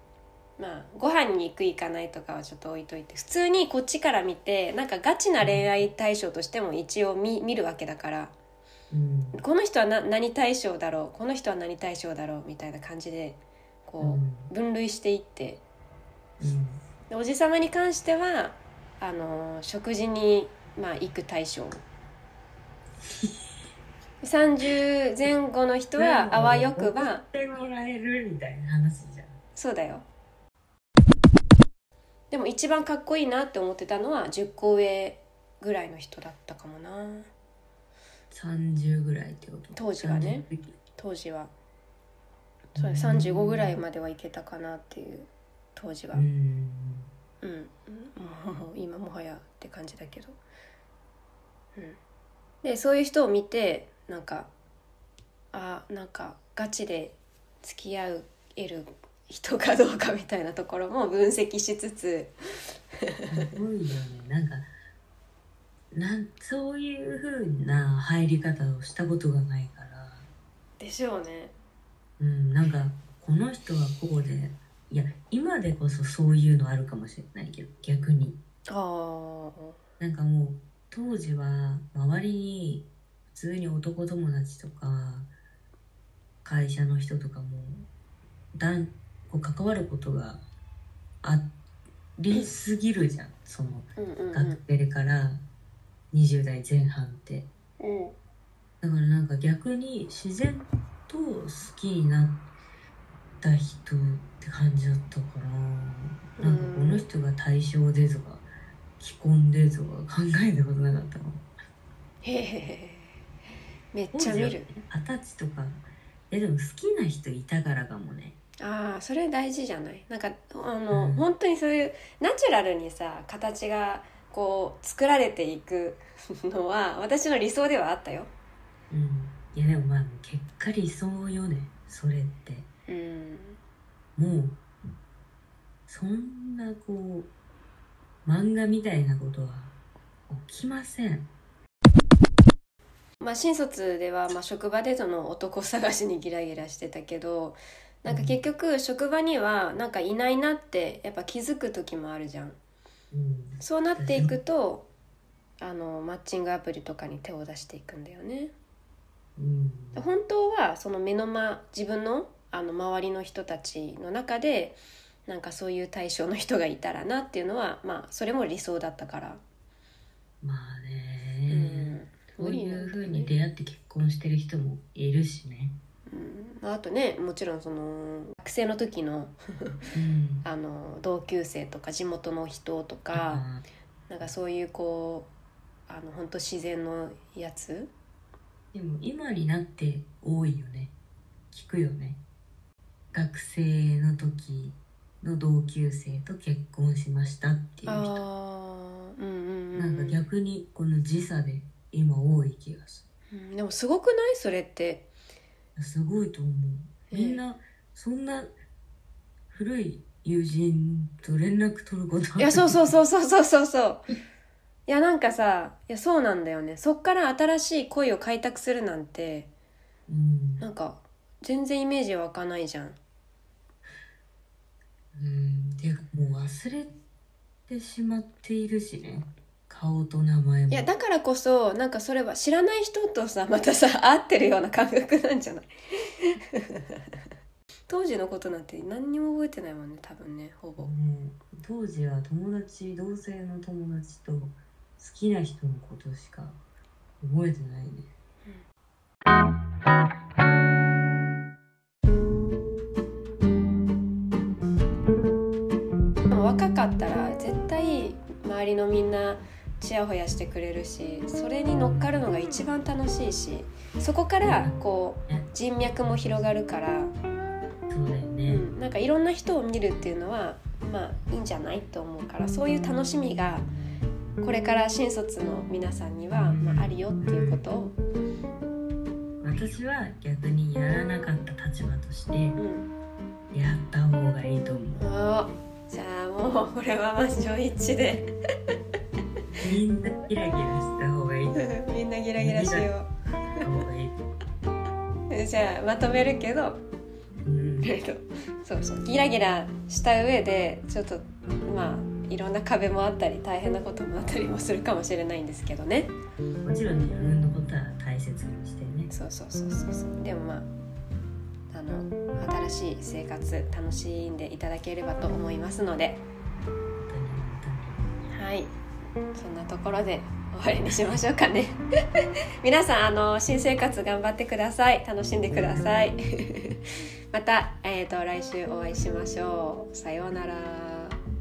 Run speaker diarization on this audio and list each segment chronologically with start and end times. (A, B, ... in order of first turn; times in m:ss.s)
0:00.6-0:08.3 A
0:05.4-0:05.7 B
0:08.9-0:09.4 B
0:09.3-0:15.6 A
0:14.0-0:14.5 B
0:16.4-0:16.8 B
0:17.1-0:21.8 A
0:23.1-0:23.4 B
0:24.2-0:27.2 A
0:26.0-0:29.4 B
0:29.6-0:30.0 A
0:32.3-0:37.3 A
0:38.3-0:40.8 B
0:39.7-0:41.5 A
0:42.8-0:43.8 B
0:42.8-0:46.2 A
0:46.1-0:47.1 B
0:47.4-0:50.4 A
0:52.6-0:54.5 A
0:55.5-1:02.3 A
1:03.3-1:04.7 B
1:05.9-1:10.3 B
1:10.8-1:11.5 A
1:12.2-1:18.4 B
1:18.7-1:19.8 A
1:20.0-1:25.3 B
1:26.4-1:27.9 B
1:28.6-1:30.4 B
1:31.2-1:31.5 B
1:32.2-1:35.4 B
1:34.0-1:34.6 A
1:36.1-1:37.5 B
1:37.8-1:38.2 A
1:38.8-1:42.4 B
1:43.4-1:48.5 B
1:46.4-1:47.1 A
1:49.0-1:51.5 B
1:52.2-1:53.2 A
1:53.9-1:54.7 A
1:54.1-1:58.4 B
1:58.6-2:08.3 A
2:00.9-2:01.3 B
2:08.9-2:12.7 B
2:12.9-2:13.6 A
2:14.2-2:14.6 B
2:15.9-2:17.3 B
2:18.2-2:19.7 B
2:20.3-2:21.3 B
2:23.2-2:32.6 A
2:28.1-2:28.4 B
2:33.1-2:34.3 B
2:33.6-2:34.9 A
2:35.6-2:38.5 A
2:39.4-2:40.1 B
2:40.0-2:49.4 A
2:50.4-2:55.8 B
2:51.5-2:53.3 A
2:56.1-2:59.7 A
2:59.9-3:00.5 B
3:00.4-3:03.5 A
3:03.1-3:03.6 B
3:04.1-3:05.3 A
3:05.9-3:07.9 A
3:08.7-3:10.9 B
3:11.5-3:12.2 B
3:13.1-3:18.2 B
3:17.9-3:20.2 A
3:19.8-3:23.0 B
3:23.3-3:25.1 A
3:25.8-3:28.5 B
3:27.1-3:27.4 A
3:29.5-3:33.0 B
3:32.4-3:34.1 A
3:34.9-3:39.5 A
3:40.1-3:40.7 B
3:40.6-3:43.0 A
3:45.2-3:46.9 B
3:47.7-3:50.9 B
3:50.7-3:57.0 A
3:57.9-4:00.9 A
4:00.8-4:06.6 B
4:07.2-4:08.1 B
4:16.3-4:27.1 A
4:24.4-4:25.5 B
4:26.0-4:26.5 B
4:27.9-4:28.7 B
4:28.5-4:33.7 A
4:34.4-4:38.0 A
4:36.5-4:37.6 B
4:39.4-4:42.6 B
4:42.6-4:42.9 A
4:43.5-4:45.0 B
4:45.0-4:48.3 A
4:49.6-4:51.7 B
4:51.6-4:53.6 A
4:52.4-4:52.9 B
4:53.6-4:54.2 B
4:55.3-4:56.8 A
4:57.4-4:57.9 B
4:57.8-5:06.1 A
5:06.6-5:09.1 B
5:06.9-5:07.4 A
5:09.1-5:10.7 A
5:11.7-5:16.2 A
5:17.0-5:18.2 B
5:18.3-5:18.7 A
5:19.4-5:21.8 A
5:22.6-5:26.8 A
5:27.3-5:31.2 A